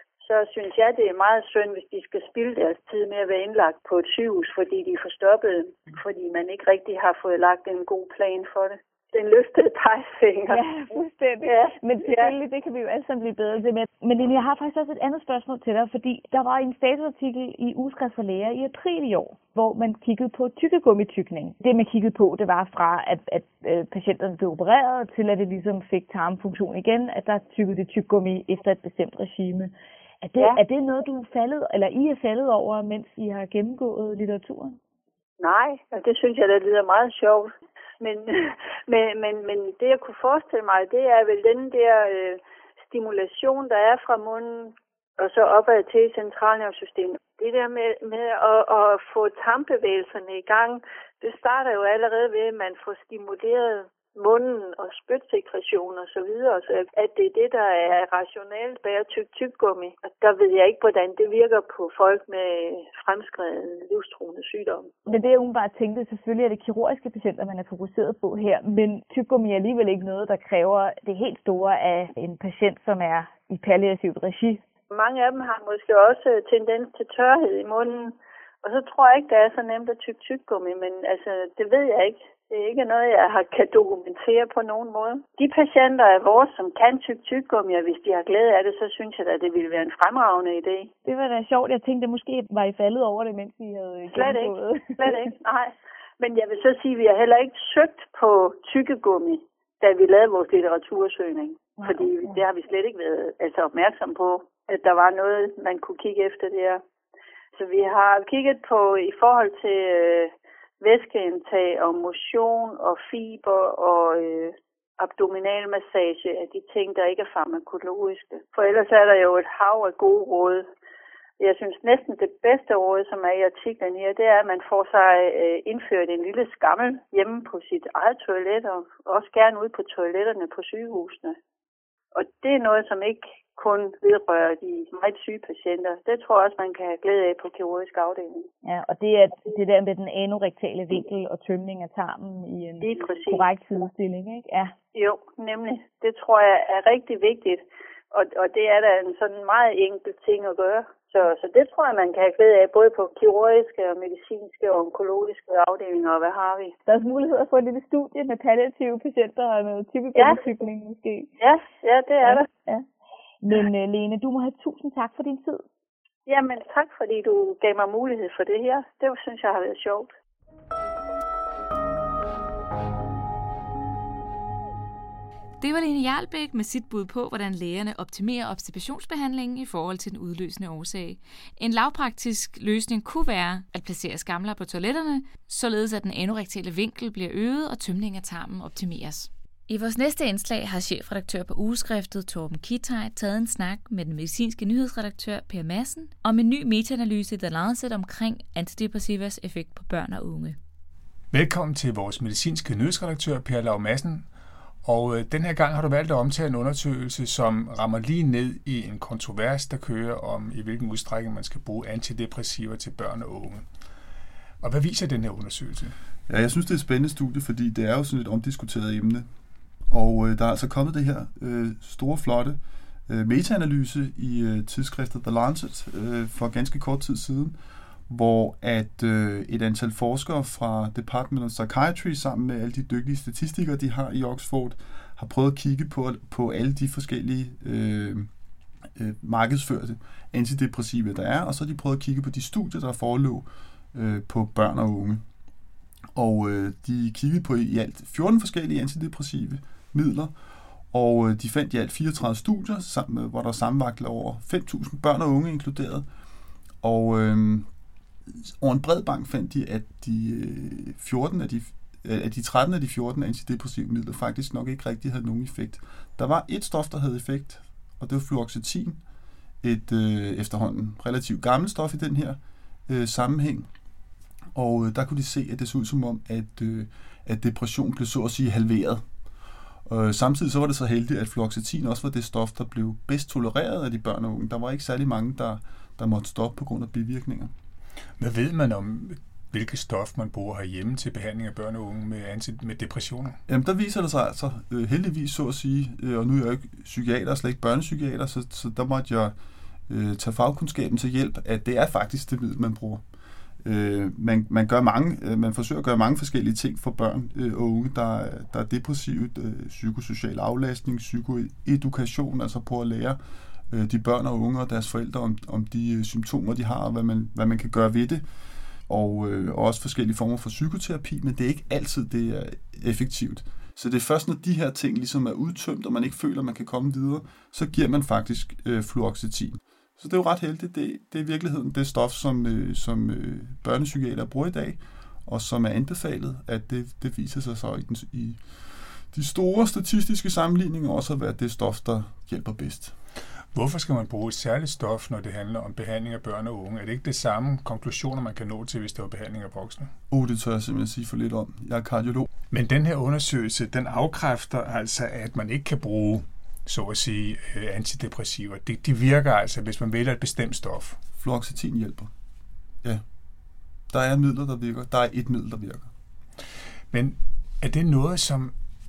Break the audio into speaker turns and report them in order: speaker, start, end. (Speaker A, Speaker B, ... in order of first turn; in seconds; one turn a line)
Speaker A: 0.2-12.3
Speaker B: 10.5-34.8
Speaker A: 35.4-65.0
Speaker B: 65.1-74.6
Speaker A: 74.9-90.9
Speaker B: 91.0-95.3
Speaker A: 94.1-106.8
Speaker B: 101.8-102.4
Speaker A: 107.5-120.6
Speaker A: 121.4-131.3
Speaker A: 132.1-138.5
Speaker B: 138.6-144.7
Speaker A: 142.8-143.5
Speaker A: 144.9-156.8
Speaker B: 156.9-161.3
Speaker A: 160.1-160.4
Speaker A: 161.4-162.5
Speaker B: 162.2-162.8
Speaker B: 163.4-165.6
Speaker A: 166.2-170.1
Speaker C: 175.6-200.6
Speaker D: 201.3-204.3
Speaker D: 204.8-213.7
Speaker D: 214.6-215.9
Speaker E: 216.3-219.3
Speaker E: 219.9-227.6
Speaker E: 228.1-238.3
Speaker E: 238.9-245.2
Speaker E: 246.1-250.3
Speaker E: 250.9-256.1
Speaker E: 256.8-257.7
Speaker E: 258.3-269.0
Speaker E: 269.6-273.7
Speaker E: 274.5-279.0
Speaker E: 279.9-287.5
Speaker D: 288.2-293.4
Speaker E: 293.5-299.3
Speaker E: 299.9-303.0
Speaker E: 303.6-313.2
Speaker E: 313.7-318.2
Speaker E: 318.9-338.4
Speaker E: 339.1-342.9
Speaker D: 343.5-349.9
Speaker E: 350.1-352.2
Speaker D: 352.5-361.0
Speaker E: 361.2-362.1
Speaker E: 363.9-365.9
Speaker D: 366.9-368.5